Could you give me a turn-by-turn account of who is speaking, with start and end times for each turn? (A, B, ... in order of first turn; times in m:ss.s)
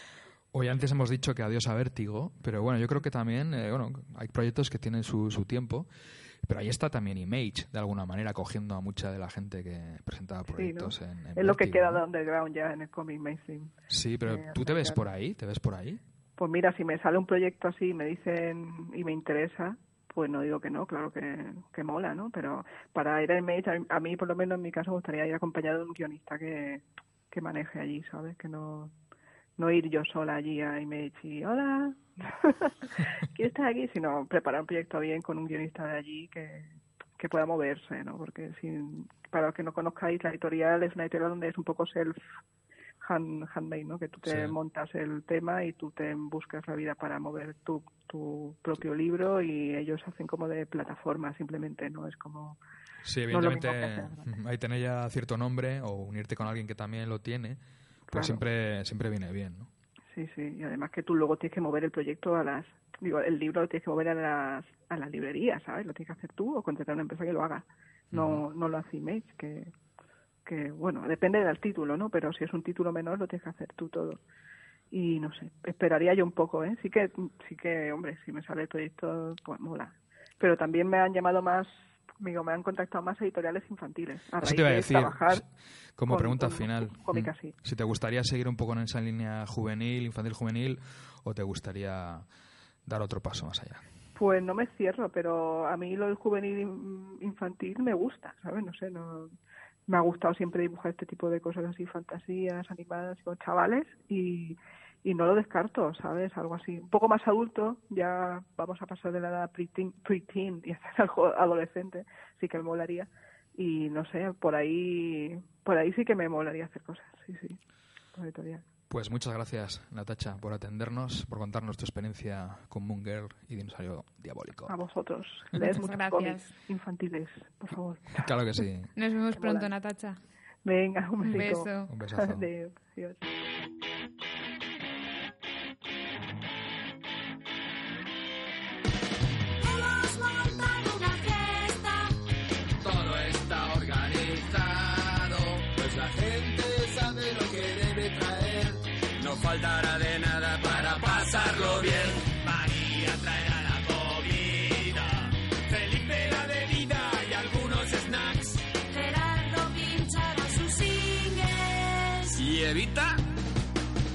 0:00.5-0:05.9 A
0:06.4-0:12.0 A
0:10.5-0:13.7 B
0:13.9-0:16.0 A
0:14.2-0:15.0 B
0:16.4-0:28.9 B
0:29.6-0:42.2 B
0:43.0-0:52.6 B
0:44.2-0:44.5 A
0:53.0-0:57.6 A
0:53.3-0:54.2 B
0:58.1-0:58.4 B
0:58.1-0:59.7 A
1:00.1-1:09.7 B
1:08.1-1:08.4 A
1:10.4-1:14.2 B
1:14.9-1:25.4 B
1:24.4-1:25.4 A
1:26.0-1:32.3 A
1:26.0-1:27.5 B
1:32.8-1:33.8 A
1:34.2-1:39.3 B
1:39.9-1:57.6 B
1:58.1-1:58.6 B
1:58.9-2:04.7 A
2:04.7-2:08.3 B
2:05.5-2:06.5 C
2:08.2-2:08.9 A
2:08.9-2:10.2 C
2:09.4-2:09.7 B
2:10.6-2:13.3 B
2:11.3-2:11.9 C
2:11.3-2:12.5 A
2:19.6-2:22.1 D
2:22.8-2:38.7 E
2:38.9-2:42.4 D
2:42.4-2:43.2 E